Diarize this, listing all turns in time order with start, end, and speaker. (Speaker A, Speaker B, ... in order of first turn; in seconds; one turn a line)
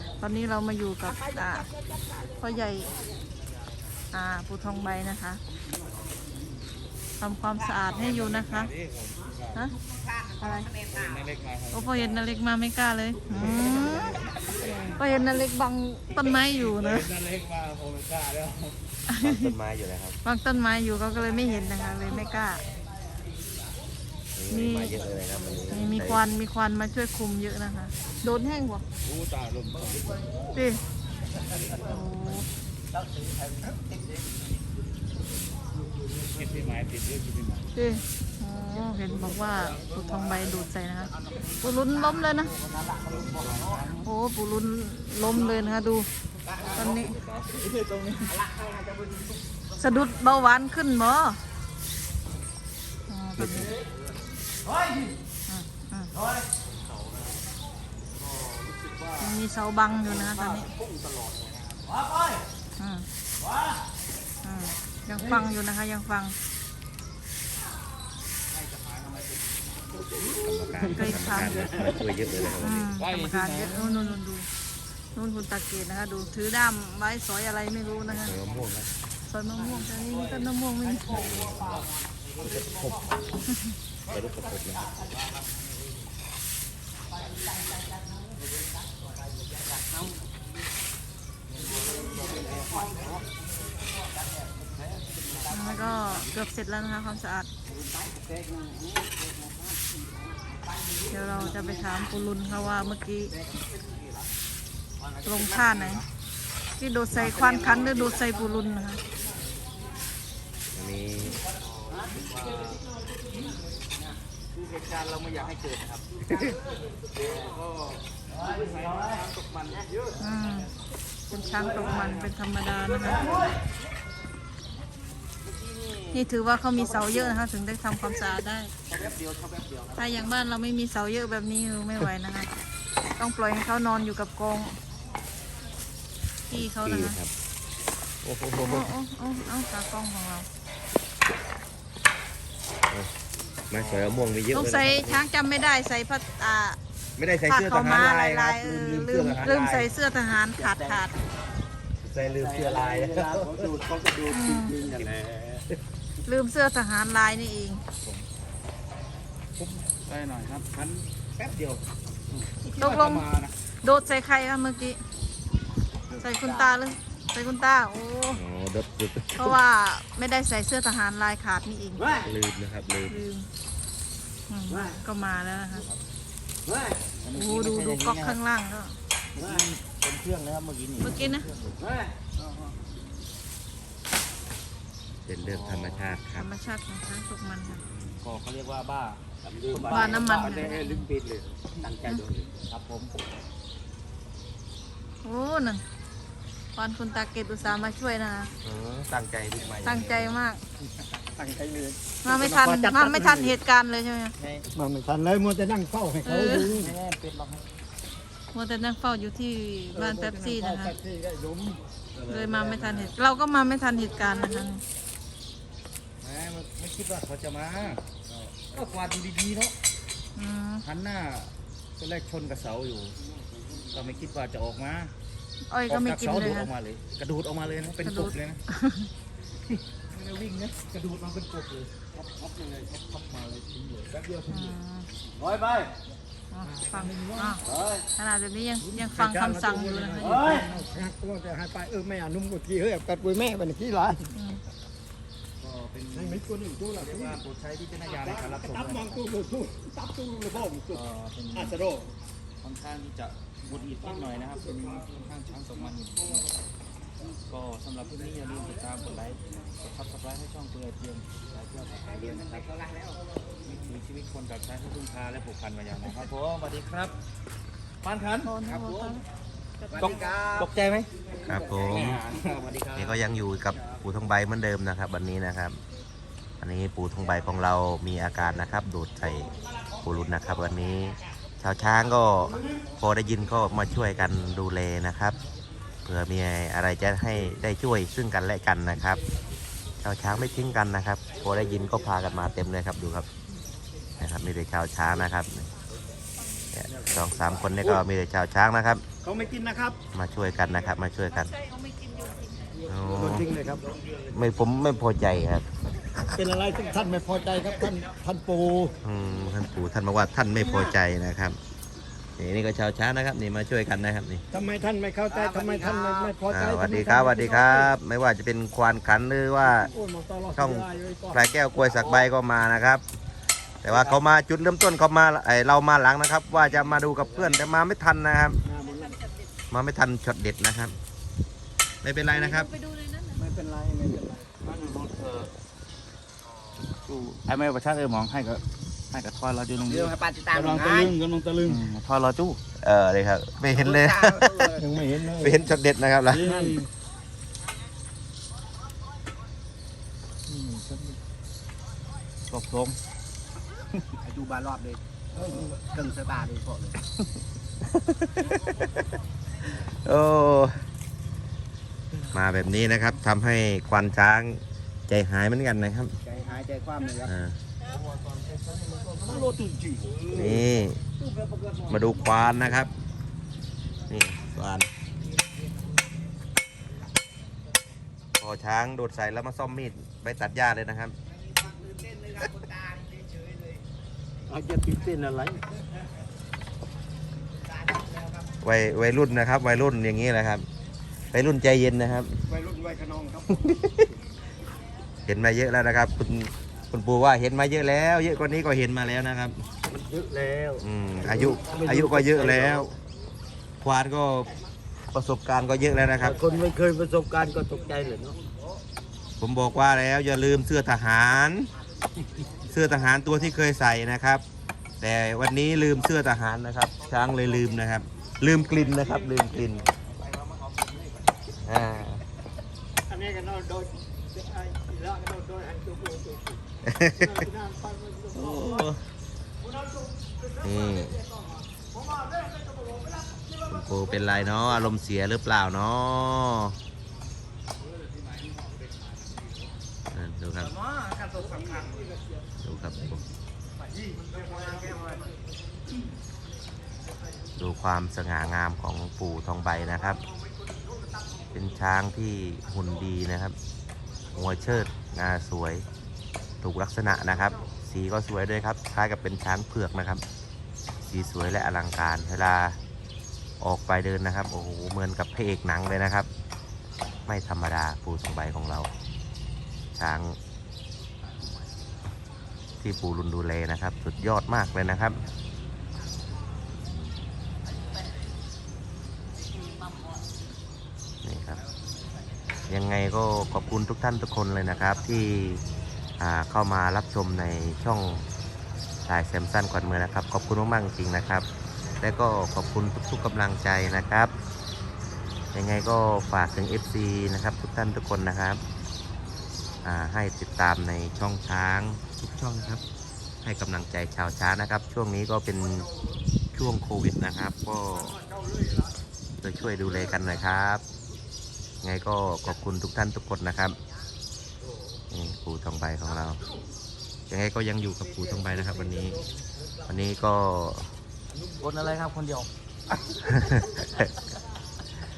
Speaker A: 0.2-1.7
Speaker A: 2.3-2.9
Speaker A: 4.1-5.4
Speaker A: 7.2-8.7
Speaker B: 7.9-9.7
Speaker A: 10.4-10.7
Speaker B: 10.9-12.3
Speaker A: 11.7-14.3
Speaker B: 13.3-15.0
Speaker C: 13.3-14.2
Speaker A: 14.9-17.1
Speaker B: 16.3-18.8
Speaker A: 19.1-19.5
Speaker C: 19.2-20.2
Speaker A: 20.2-22.6
Speaker C: 24.4-26.2
Speaker A: 24.5-25.0
Speaker A: 25.7-28.8
Speaker B: 29.0-30.2
Speaker A: 30.5-30.8
Speaker A: 31.8-32.5
Speaker D: 32.9-33.9
Speaker B: 36.3-37.7
Speaker A: 37.7-42.5
Speaker B: 42.9-44.1
Speaker A: 44.0-46.1
Speaker D: 46.5-46.7
Speaker B: 46.6-48.4
Speaker A: 46.7-47.1
Speaker D: 48.3-49.4
Speaker A: 49.8-51.4
Speaker A: 53.1-53.7
Speaker C: 53.4-53.7
Speaker A: 55.5-56.1
Speaker B: 58.7-59.1
Speaker A: 59.2-60.7
Speaker B: 60.0-62.2
Speaker A: 62.8-63.0
Speaker A: 64.4-66.3
Speaker B: 68.7-69.3
Speaker C: 70.3-72.9
Speaker A: 70.9-71.8
Speaker B: 71.7-74.2
Speaker A: 72.6-74.5
Speaker A: 75.1-78.4
Speaker C: 78.1-78.9
Speaker A: 79.3-81.2
Speaker C: 81.1-81.8
Speaker C: 82.4-83.0
Speaker C: 84.1-85.0
Speaker D: 89.7-90.0
Speaker B: 91.9-92.9
Speaker D: 92.5-93.2
Speaker A: 95.5-97.5
Speaker D: 97.7-100.4
Speaker A: 101.1-103.3
Speaker D: 103.5-104.0
Speaker A: 105.2-106.0
Speaker A: 106.8-109.0
Speaker B: 107.2-108.1
Speaker C: 110.7-111.4
Speaker B: 111.8-112.8
Speaker B: 114.5-116.2
Speaker B: 117.2-120.1
Speaker A: 120.2-120.7
Speaker A: 121.3-123.5
Speaker B: 121.5-122.2
Speaker B: 123.0-123.5
Speaker B: 125.4-126.2
Speaker A: 126.1-128.7
Speaker B: 126.8-127.3
Speaker B: 128.9-130.3
Speaker A: 129.9-132.5
Speaker A: 133.2-134.8
Speaker A: 136.5-137.2
Speaker C: 136.5-137.3
Speaker C: 138.2-138.9
Speaker A: 138.6-140.5
Speaker C: 143.7-145.2
Speaker B: 143.7-144.4
Speaker A: 144.5-146.8
Speaker C: 147.2-149.9
Speaker A: 147.4-151.1
Speaker C: 152.0-153.7
Speaker B: 152.3-155.6
Speaker A: 154.3-154.7
Speaker A: 156.2-157.8
Speaker B: 159.6-163.5
Speaker A: 162.6-163.2
Speaker A: 163.8-165.0
Speaker A: 166.2-168.4
Speaker C: 168.3-169.6
Speaker A: 169.4-172.2
Speaker C: 172.2-173.2
Speaker A: 173.1-173.5
Speaker A: 174.5-175.9
Speaker B: 177.2-178.4
Speaker A: 177.3-178.9
Speaker B: 179.3-182.1
Speaker A: 181.0-181.5
Speaker C: 185.2-186.5
Speaker B: 185.4-186.1
Speaker A: 186.4-187.8
Speaker B: 187.9-191.4
Speaker A: 189.8-191.1
Speaker E: 189.9-190.7
Speaker B: 192.7-193.1
Speaker A: 195.2-195.8
Speaker A: 196.7-198.5
Speaker C: 198.6-200.4
Speaker A: 199.8-200.6
Speaker E: 201.3-203.5
Speaker A: 202.2-204.3
Speaker B: 204.4-204.6
Speaker E: 204.7-206.9
Speaker A: 206.2-206.7
Speaker B: 206.3-207.6
Speaker A: 208.5-210.9
Speaker E: 209.9-211.8
Speaker B: 212.1-213.1
Speaker A: 212.3-214.8
Speaker B: 216.2-219.7
Speaker A: 220.3-220.8
Speaker B: 220.8-223.2
Speaker B: 223.9-225.1
Speaker A: 225.7-226.7
Speaker B: 225.9-228.6
Speaker A: 228.0-229.1
Speaker B: 229.9-234.5
Speaker A: 234.5-235.1
Speaker B: 235.4-235.9
Speaker A: 236.5-237.6
Speaker B: 237.6-238.0
Speaker A: 238.1-240.7
Speaker E: 238.9-244.3
Speaker B: 240.2-240.7
Speaker A: 244.3-244.6
Speaker B: 245.6-246.4
Speaker E: 246.1-247.4
Speaker B: 246.9-249.2
Speaker E: 248.2-251.0
Speaker B: 250.9-251.9
Speaker E: 251.5-252.1
Speaker B: 252.6-256.4
Speaker B: 257.5-262.7
Speaker D: 262.2-263.2
Speaker B: 263.6-267.2
Speaker B: 268.0-268.7
Speaker A: 268.4-269.2
Speaker A: 269.8-270.2
Speaker D: 269.9-270.7
Speaker B: 269.9-271.1
Speaker C: 271.4-272.2
Speaker B: 271.6-273.2
Speaker C: 272.9-275.8
Speaker C: 276.6-285.4
Speaker C: 286.0-289.2
Speaker C: 290.0-293.3
Speaker C: 294.2-295.7
Speaker C: 296.7-299.0
Speaker E: 299.2-300.0
Speaker C: 300.1-301.5
Speaker A: 301.4-302.9
Speaker C: 302.9-303.5
Speaker E: 303.1-303.8
Speaker C: 304.3-305.6
Speaker E: 306.2-309.0
Speaker C: 309.0-311.6
Speaker C: 312.4-314.4
Speaker E: 314.5-317.9
Speaker D: 315.3-316.4
Speaker C: 316.5-319.9
Speaker E: 319.9-321.5
Speaker C: 320.5-323.0
Speaker C: 323.8-328.6
Speaker E: 328.6-329.2
Speaker C: 329.7-330.9
Speaker C: 332.0-332.7
Speaker A: 332.3-333.4
Speaker E: 333.4-334.5
Speaker B: 334.6-335.5
Speaker B: 337.0-342.6
Speaker D: 339.9-341.1
Speaker C: 342.8-344.8
Speaker D: 343.8-344.8
Speaker E: 344.8-345.5
Speaker C: 345.3-346.6
Speaker E: 346.3-346.9
Speaker B: 350.5-351.2
Speaker B: 352.5-353.0
Speaker D: 354.2-355.0
Speaker E: 355.4-355.7
Speaker D: 355.8-356.9
Speaker C: 357.9-359.0
Speaker C: 359.7-360.8
Speaker C: 362.3-366.1
Speaker D: 366.2-367.3
Speaker C: 367.2-367.6
Speaker E: 367.9-369.5
Speaker B: 369.3-370.3
Speaker C: 370.3-371.0
Speaker C: 371.9-372.9
Speaker C: 374.1-374.9
Speaker C: 378.4-381.1
Speaker D: 381.6-383.8
Speaker B: 384.6-385.5
Speaker C: 388.6-390.6
Speaker C: 391.3-392.3
Speaker E: 392.5-393.6
Speaker C: 393.6-394.1
Speaker C: 395.2-399.6
Speaker E: 399.9-402.8
Speaker C: 400.8-402.9
Speaker C: 403.8-404.5
Speaker C: 405.1-406.4
Speaker E: 406.3-408.1
Speaker D: 406.7-408.3
Speaker C: 409.4-411.7
Speaker C: 412.7-414.4
Speaker C: 415.0-419.8
Speaker B: 418.7-419.4
Speaker C: 421.6-422.2
Speaker E: 423.1-426.6
Speaker C: 426.9-427.3
Speaker E: 427.2-428.7
Speaker C: 428.3-429.0
Speaker C: 430.6-431.2
Speaker C: 433.6-436.8
Speaker B: 438.0-439.7
Speaker C: 440.1-440.7
Speaker B: 440.6-442.1
Speaker C: 442.6-443.2
Speaker E: 444.2-444.9
Speaker C: 447.6-450.2
Speaker C: 451.5-453.6
Speaker C: 454.3-455.8
Speaker C: 456.6-460.2
Speaker C: 461.0-462.8
Speaker C: 463.6-466.3
Speaker C: 467.3-468.9
Speaker C: 469.9-470.4
Speaker C: 472.8-475.2
Speaker C: 481.2-481.6
Speaker C: 482.7-485.6
Speaker C: 486.2-488.2
Speaker C: 489.1-491.5
Speaker C: 492.0-494.3
Speaker C: 495.5-498.6
Speaker C: 499.8-502.8
Speaker C: 503.4-505.9
Speaker C: 506.5-508.2
Speaker C: 509.4-510.8
Speaker C: 511.8-513.8
Speaker C: 515.1-516.4
Speaker C: 517.3-519.2
Speaker C: 519.9-520.9
Speaker B: 521.6-522.5
Speaker C: 523.2-524.1